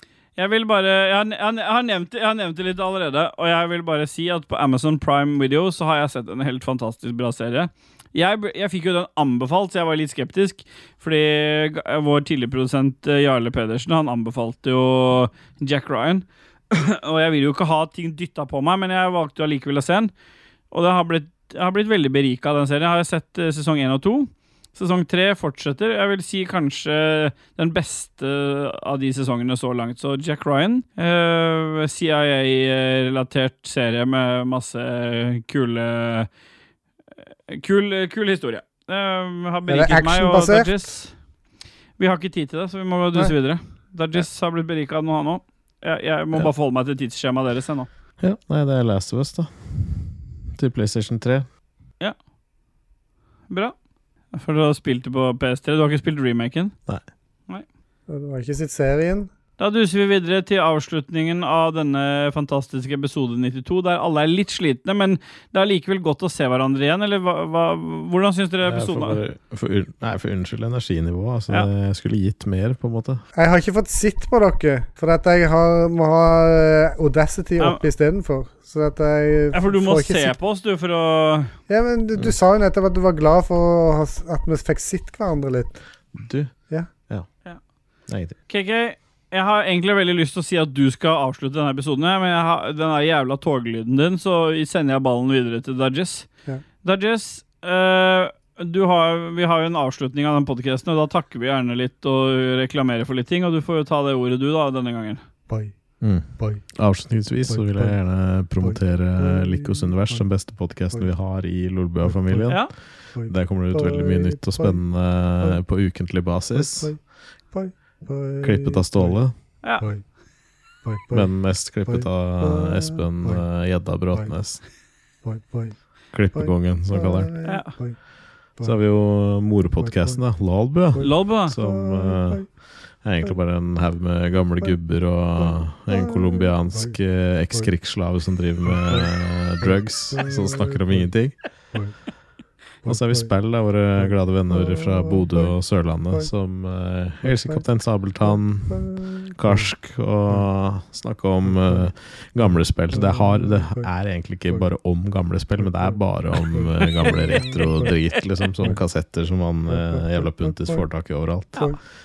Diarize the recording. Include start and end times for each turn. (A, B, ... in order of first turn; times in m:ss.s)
0:00.4-0:20.1 A
0:20.7-0:36.3 A
0:37.5-0:41.1 A
0:39.7-0:40.7 B
0:42.0-0:47.9 A
0:48.2-0:51.5 C
0:53.5-0:53.8 A
0:54.3-0:56.8 A
0:58.1-0:59.3 B
0:59.6-1:09.2 A
1:08.6-1:13.2 C
1:13.4-1:20.4 B
1:19.5-1:21.6 A
1:21.7-1:25.8 B
1:26.1-1:26.5 C
1:28.1-1:28.4 C
1:28.5-1:36.3 A
1:36.8-1:45.2 A
1:46.0-1:56.9 C
1:47.5-1:48.0 B
1:48.6-1:50.2 B
1:52.0-1:52.5 B
1:53.1-1:54.8 B
1:56.5-1:57.0 B
1:57.5-1:59.2 B
1:58.4-1:59.4 C
1:59.8-2:00.0 B
2:00.8-2:01.3 B
2:01.1-2:04.6 C
2:01.8-2:03.4 B
2:05.2-2:05.8 B
2:06.1-2:07.3 C
2:06.3-2:08.0 B
2:07.4-2:07.7 A
2:08.6-2:21.4 C
2:09.8-2:10.2 B
2:10.9-2:12.5 B
2:11.0-2:11.6 A
2:15.4-2:16.9 B
2:18.8-2:19.1 B
2:19.6-2:21.1 B
2:22.8-2:23.3 B
2:22.8-2:41.7 C
2:24.0-2:25.5 B
2:27.2-2:27.6 B
2:28.2-2:29.7 B
2:31.4-2:31.9 B
2:32.9-2:33.9 B
2:35.6-2:36.0 B
2:36.6-2:37.9 B
2:39.7-2:40.9 B